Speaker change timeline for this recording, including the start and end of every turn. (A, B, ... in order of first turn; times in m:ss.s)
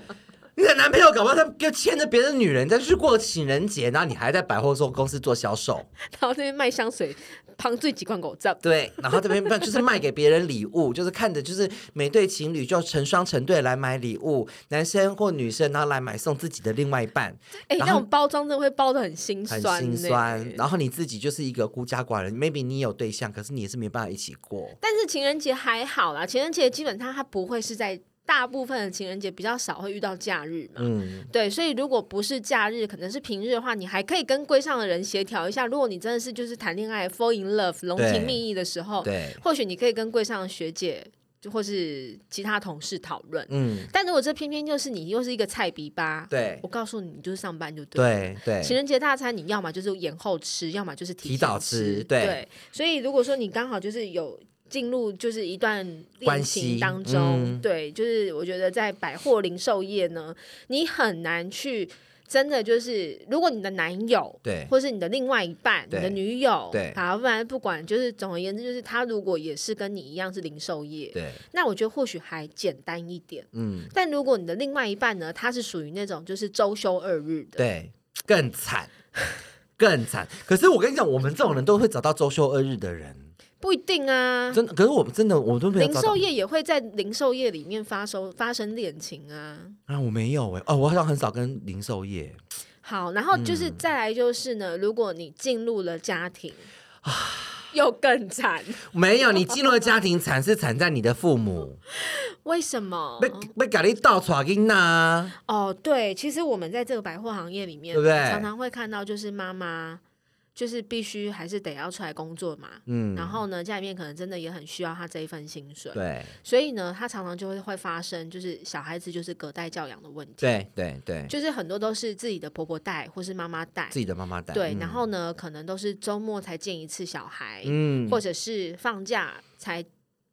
0:00.6-0:05.9 A
0:06.0-0:09.5 B
0:08.6-0:18.0 A
0:17.7-0:20.6 B
0:19.5-0:24.8 A
0:24.8-1:17.6 B
0:30.8-0:31.3 A
0:38.0-0:38.4 A
0:39.0-0:39.4 A
0:43.5-0:43.9 A
0:46.3-0:46.6 A
0:48.0-0:48.8 A
0:51.2-0:52.4 A
0:56.2-0:57.6 A
1:04.4-1:04.7 A
1:05.9-1:06.2 A
1:06.7-1:07.0 A
1:11.1-1:11.4 A
1:13.5-1:13.9 A
1:17.6-1:18.9 A
1:19.8-1:23.3 A
1:23.6-1:24.6 B
1:24.5-1:26.2 A
1:25.7-1:29.8 B
1:29.9-1:32.4 A
1:32.8-1:36.7 B
1:33.3-1:33.8 A
1:37.0-1:37.7 A
1:37.7-1:38.9 B
1:38.9-1:41.8 A
1:42.0-1:43.5 B
1:43.2-1:45.3 A
1:45.4-1:50.0 B
1:47.9-1:48.5 A
1:50.6-2:00.6 B
1:52.9-1:53.4 A
1:55.9-1:56.3 A
2:00.4-2:01.3 A
2:01.3-2:04.0 B
2:03.9-2:05.0 A
2:04.5-2:09.9 B
2:07.6-2:08.2 A